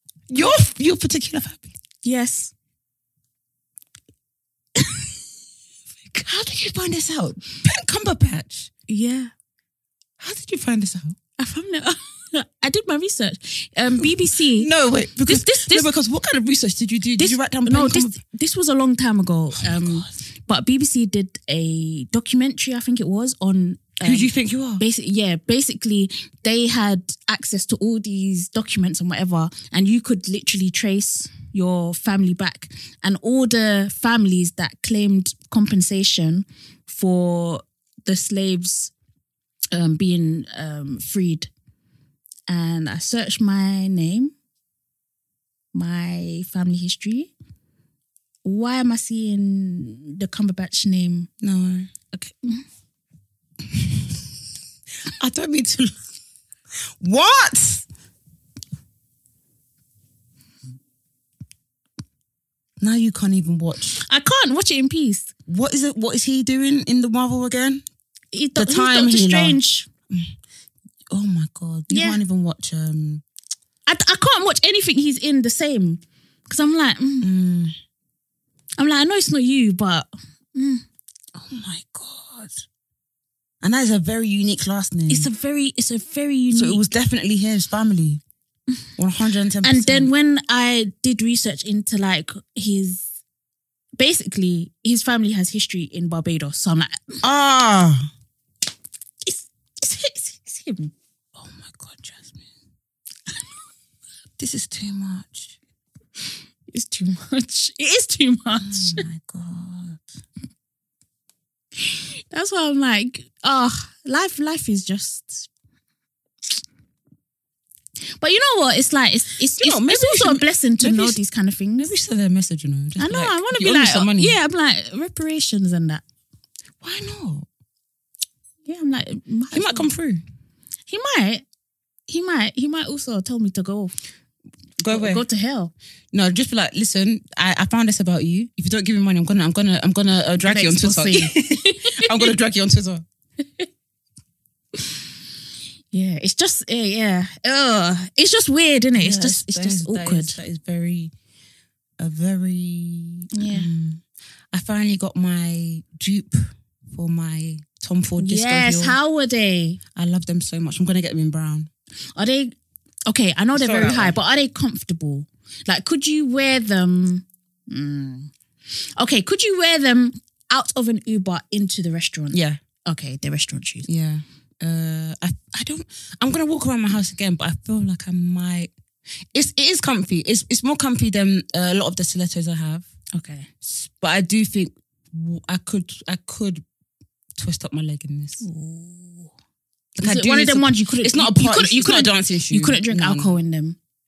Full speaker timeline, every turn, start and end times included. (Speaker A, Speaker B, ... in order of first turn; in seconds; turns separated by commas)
Speaker A: 0.3-1.8, Speaker B: 2.0-2.5, Speaker A: 6.2-8.7, Speaker B: 8.9-9.3, Speaker A: 10.2-11.2, Speaker B: 11.4-14.7, Speaker A: 14.0-18.2, Speaker B: 15.2-15.9, Speaker B: 17.2-38.9, Speaker A: 19.6-20.1, Speaker A: 24.0-24.8, Speaker B: 39.7-41.5, Speaker B: 42.5-44.3, Speaker B: 45.7-47.3, Speaker B: 48.4-51.3, Speaker A: 51.4-51.9, Speaker B: 52.1-52.6, Speaker A: 53.7-54.1, Speaker A: 55.1-56.0, Speaker A: 57.0-57.9, Speaker A: 62.8-64.0, Speaker B: 64.0-65.3, Speaker A: 65.5-67.8, Speaker B: 68.3-69.9, Speaker A: 68.6-70.3, Speaker A: 71.1-73.2, Speaker B: 71.9-72.2, Speaker B: 73.9-77.3, Speaker A: 77.2-77.8, Speaker B: 78.8-80.8, Speaker A: 81.3-82.5, Speaker A: 83.6-85.3, Speaker B: 85.1-86.8, Speaker A: 86.5-88.2, Speaker A: 89.0-90.1, Speaker B: 89.6-93.1, Speaker B: 94.0-97.2, Speaker A: 97.2-98.1, Speaker B: 99.2-100.9, Speaker A: 101.3-102.5, Speaker A: 104.4-105.6, Speaker B: 106.7-109.1, Speaker A: 108.6-110.0, Speaker B: 111.8-115.5, Speaker B: 118.2-121.9, Speaker A: 119.5-121.2, Speaker A: 121.8-124.4, Speaker B: 123.0-126.0, Speaker A: 126.8-127.5, Speaker B: 128.7-129.9, Speaker A: 129.5-130.2, Speaker B: 130.9-131.4, Speaker B: 132.1-133.9, Speaker A: 134.8-135.2, Speaker B: 134.9-135.7, Speaker A: 136.1-143.1, Speaker B: 140.4-142.3, Speaker B: 145.9-150.4, Speaker A: 149.0-151.1, Speaker A: 152.0-159.0, Speaker B: 153.3-153.7, Speaker B: 158.2-159.8, Speaker A: 159.9-161.7, Speaker B: 162.2-162.6, Speaker B: 163.1-173.9, Speaker A: 163.5-164.2, Speaker A: 172.3-172.6, Speaker A: 173.9-178.7, Speaker A: 179.3-182.9, Speaker B: 183.1-183.5, Speaker A: 183.6-186.6, Speaker A: 187.4-188.4, Speaker B: 188.4-189.3, Speaker A: 189.9-193.4, Speaker B: 190.0-193.8